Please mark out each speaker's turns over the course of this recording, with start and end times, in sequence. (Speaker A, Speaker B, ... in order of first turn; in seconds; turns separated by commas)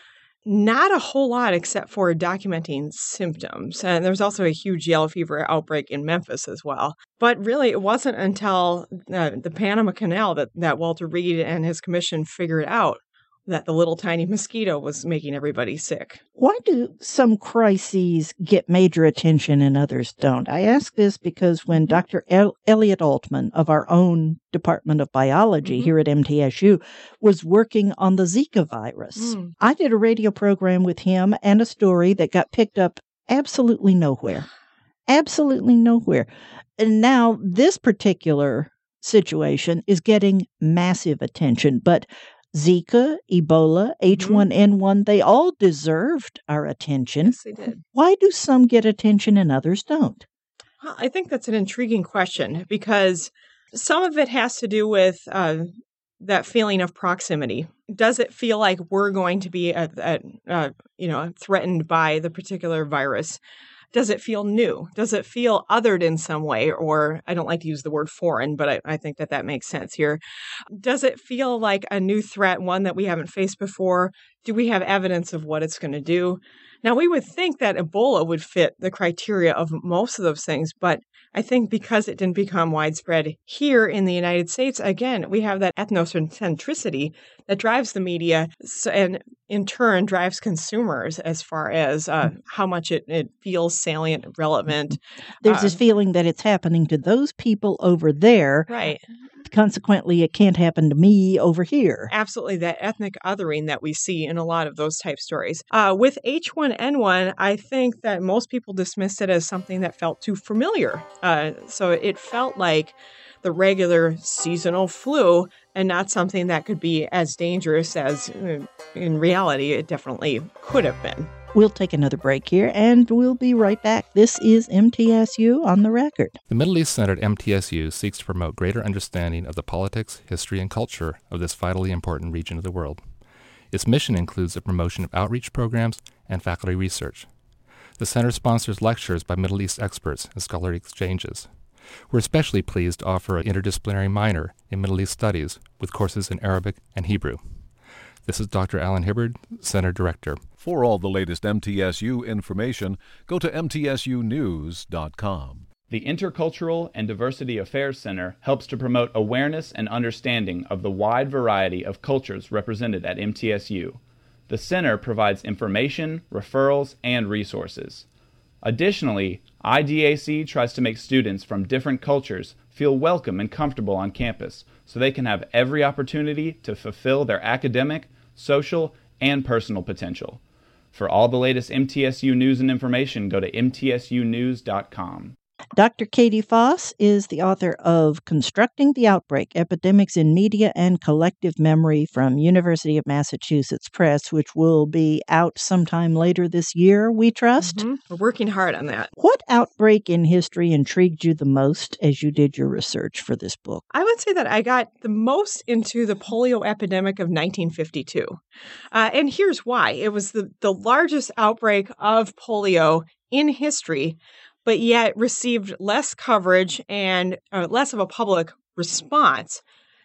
Speaker A: 0.5-16.2, Speaker B: 16.4-34.5, Speaker A: 25.6-25.9, Speaker A: 29.2-29.5, Speaker B: 35.1-50.2, Speaker A: 44.1-44.5, Speaker A: 47.2-47.8, Speaker A: 50.8-55.7, Speaker A: 56.2-63.4, Speaker A: 63.9-70.2, Speaker A: 70.7-95.8, Speaker B: 95.4-98.7, Speaker A: 98.7-99.0, Speaker B: 99.5-102.1, Speaker A: 102.1-121.3, Speaker B: 121.5-126.4, Speaker C: 126.5-133.1, Speaker C: 133.7-137.3, Speaker C: 138.0-141.5, Speaker C: 142.1-147.4, Speaker C: 148.2-150.4, Speaker D: 150.6-155.7, Speaker E: 155.9-168.0, Speaker E: 168.6-180.4, Speaker E: 180.9-185.3, Speaker B: 185.8-197.8, Speaker A: 197.6-199.1, Speaker B: 199.2-203.8, Speaker A: 203.9-208.4, Speaker A: 208.9-219.6